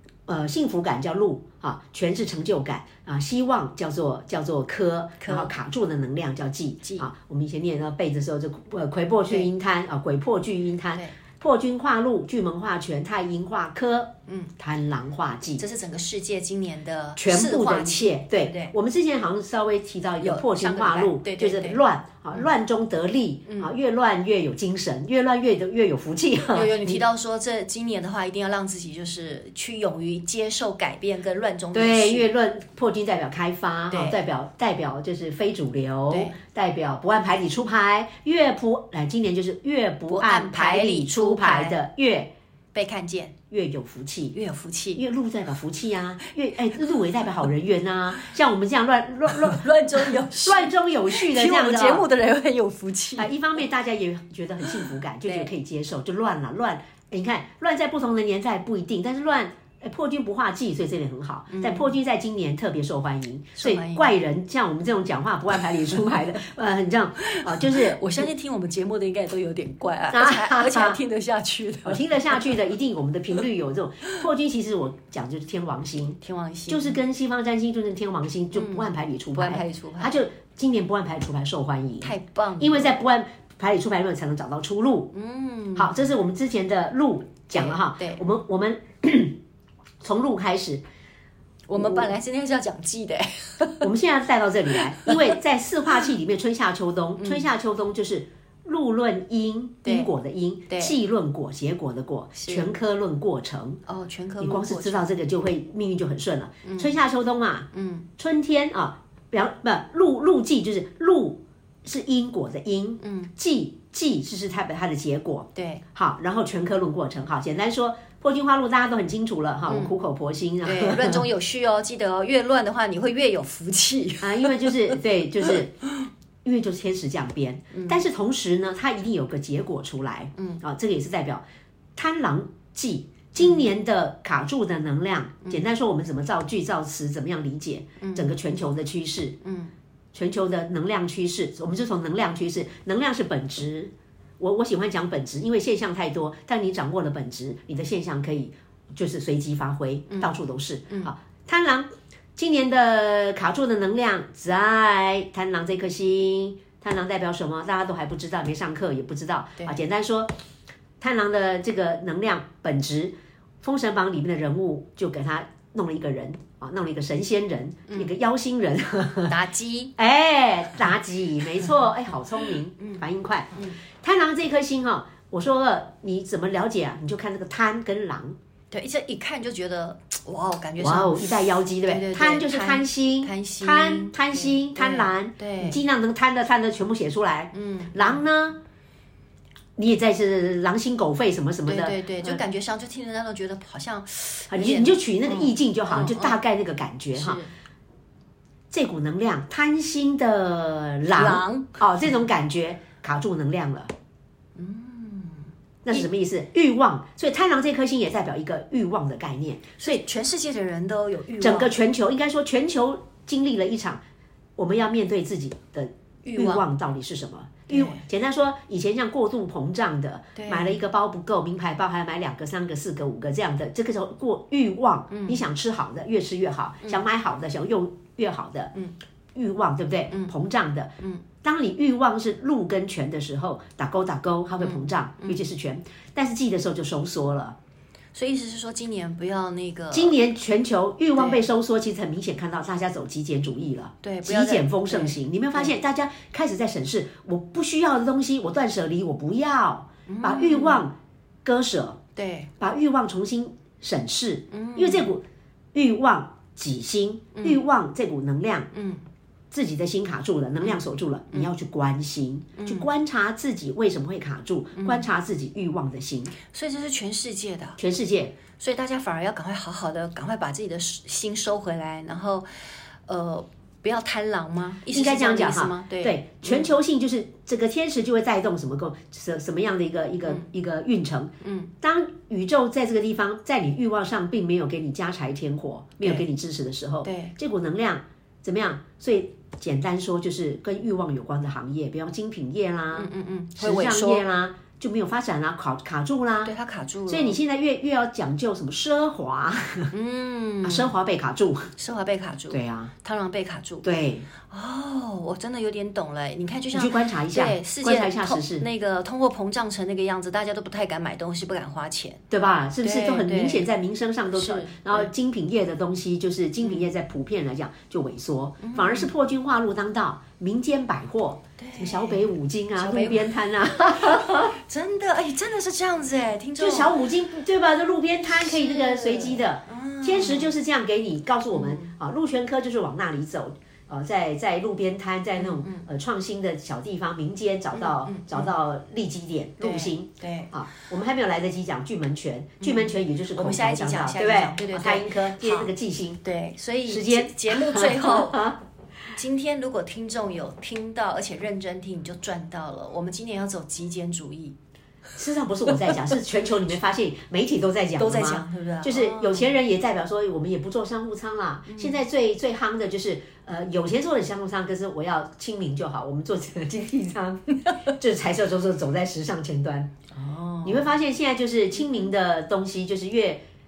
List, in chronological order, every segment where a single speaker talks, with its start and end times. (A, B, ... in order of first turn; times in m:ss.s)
0:00.3-0:15.6 A
0:05.2-0:05.5 B
0:06.8-0:07.1 B
0:14.3-0:14.5 B
0:15.6-0:18.7 B
0:17.2-0:27.0 A
0:20.2-0:21.8 B
0:23.5-0:23.7 B
0:26.5-0:32.3 B
0:31.7-0:42.3 A
0:33.9-0:34.2 B
0:36.1-0:36.4 B
0:40.1-0:41.8 B
0:42.7-0:43.4 B
0:43.5-0:44.4 A
0:44.3-0:45.0 B
0:44.9-0:52.1 A
0:49.3-0:53.3 B
0:53.2-1:08.0 A
0:54.7-0:55.5 B
1:01.5-1:01.9 B
1:03.6-1:04.1 B
1:07.2-1:12.6 B
1:10.1-1:11.0 A
1:11.8-1:25.1 A
1:16.2-1:17.0 B
1:18.5-1:20.2 B
1:22.0-1:22.9 B
1:25.1-1:26.1 B
1:25.8-1:29.4 A
1:27.5-1:28.2 B
1:30.0-1:30.8 A
1:31.7-1:33.9 B
1:31.8-1:32.1 A
1:33.8-1:43.8 A
1:34.7-1:35.4 B
1:37.2-1:37.5 B
1:39.8-1:40.1 B
1:40.7-1:40.9 B
1:42.4-1:42.7 B
1:43.8-1:45.2 B
1:44.4-2:01.3 A
1:46.6-1:47.0 B
1:47.7-1:48.1 B
1:53.0-1:53.3 B
1:55.5-1:55.8 B
1:59.7-1:59.9 B
2:00.6-2:06.1 B
2:04.2-2:05.8 A
2:06.4-2:11.4 A
2:07.7-2:08.0 B
2:10.4-2:10.6 B
2:11.9-2:19.4 A
2:13.4-2:13.7 B
2:18.0-2:18.4 B
2:19.4-2:19.7 B
2:20.1-2:40.3 A
2:30.1-2:30.4 B
2:30.9-2:31.1 B
2:41.0-2:49.3 A
2:47.9-2:48.1 B
2:49.3-2:49.9 B
2:50.0-2:58.4 A
2:52.8-2:53.8 B
2:58.7-3:05.8 B
3:00.8-3:08.6 A
3:07.5-3:08.2 B
3:09.8-3:12.4 A
3:11.6-3:16.4 B
3:14.5-3:17.4 A
3:17.1-3:17.5 B
3:18.7-3:23.9 A
3:21.1-3:21.8 B
3:24.6-3:26.0 B
3:25.8-3:30.0 A
3:29.8-3:31.7 B
3:31.4-3:34.0 A
3:34.6-3:48.7 A
3:36.2-3:36.6 B
3:37.7-3:38.0 B
3:40.3-3:40.8 B
3:45.1-3:45.4 B
3:49.3-3:57.6 A
3:54.6-3:55.4 B
3:58.1-4:00.2 B
3:59.9-4:12.0 A
4:01.2-4:01.4 B
4:04.0-4:05.8 B
4:10.1-4:10.8 B
4:12.2-4:12.5 B
4:12.6-4:15.2 A
4:14.5-4:15.1 B
4:15.7-4:18.7 A
4:17.3-4:17.6 B
4:18.7-4:19.0 B
4:19.5-4:26.3 A
4:22.6-4:22.9 B
4:24.8-4:25.0 B
4:26.5-4:27.8 B
4:27.8-4:28.4 A
4:28.5-4:32.5 B
4:33.1-4:36.7 B
4:34.9-4:56.5 A
4:41.4-4:41.7 B
4:47.0-4:47.3 B
4:52.9-4:54.2 B
4:56.4-4:57.4 B
4:57.1-4:59.9 A
4:59.9-5:00.9 B
5:00.6-5:01.7 A
5:01.8-5:03.9 B
5:02.5-5:02.9 A
5:03.8-5:04.2 A
5:04.4-5:12.2 B
5:06.7-5:08.6 A
5:12.3-5:24.6 A
5:12.8-5:13.6 B
5:14.3-5:15.1 B
5:16.6-5:16.9 B
5:18.6-5:19.1 B
5:21.6-5:27.0 B
5:26.6-5:46.2 A
5:28.4-5:30.5 B
5:31.5-5:31.9 B
5:35.4-5:35.9 B
5:37.7-5:38.5 B
5:39.6-5:40.5 B
5:42.6-5:48.6 B
5:46.9-5:48.6 A
5:49.1-5:54.6 B
5:55.1-6:09.9 A
5:58.0-5:59.5 B
6:01.7-6:02.0 B
6:10.1-6:10.9 B
6:10.6-6:13.4 A